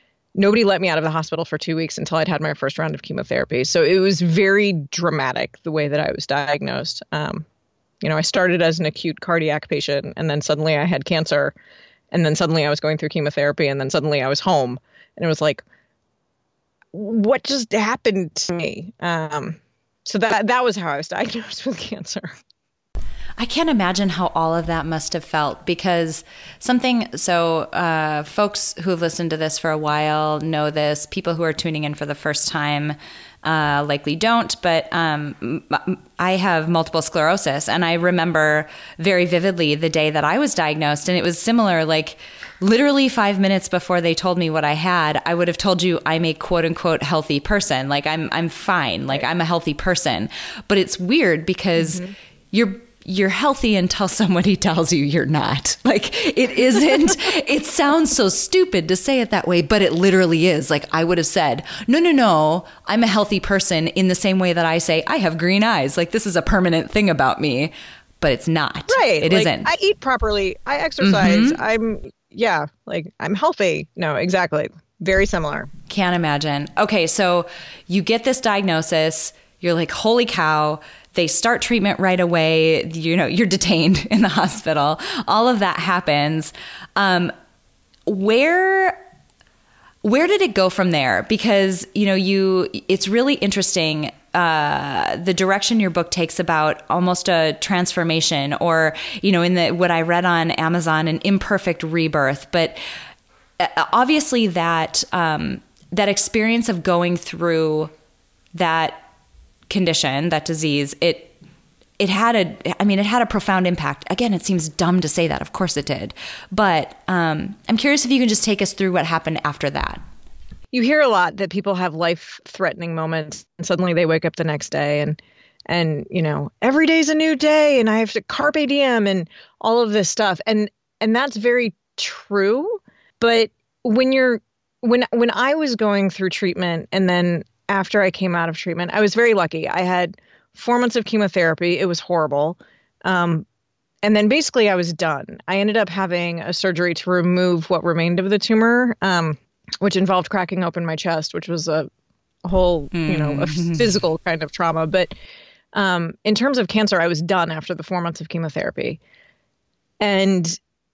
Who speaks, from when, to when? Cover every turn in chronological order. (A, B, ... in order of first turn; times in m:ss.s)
0:00.4-0:07.4 A
0:08.0-0:11.5 A
0:12.1-0:15.6 A
0:16.9-0:22.3 A
0:23.4-1:09.7 B
1:08.9-1:15.7 A
1:11.0-1:11.6 B
1:15.9-1:27.3 B
1:28.1-1:29.0 B
1:30.0-1:42.8 B
1:43.6-1:47.9 B
1:48.5-1:49.0 B
1:49.7-1:51.3 B
1:52.0-2:00.0 B
2:00.7-2:23.4 A
2:24.0-2:31.9 A
2:32.4-2:35.1 A
2:32.9-2:34.0 B
2:35.7-2:39.0 A
2:40.0-2:40.6 A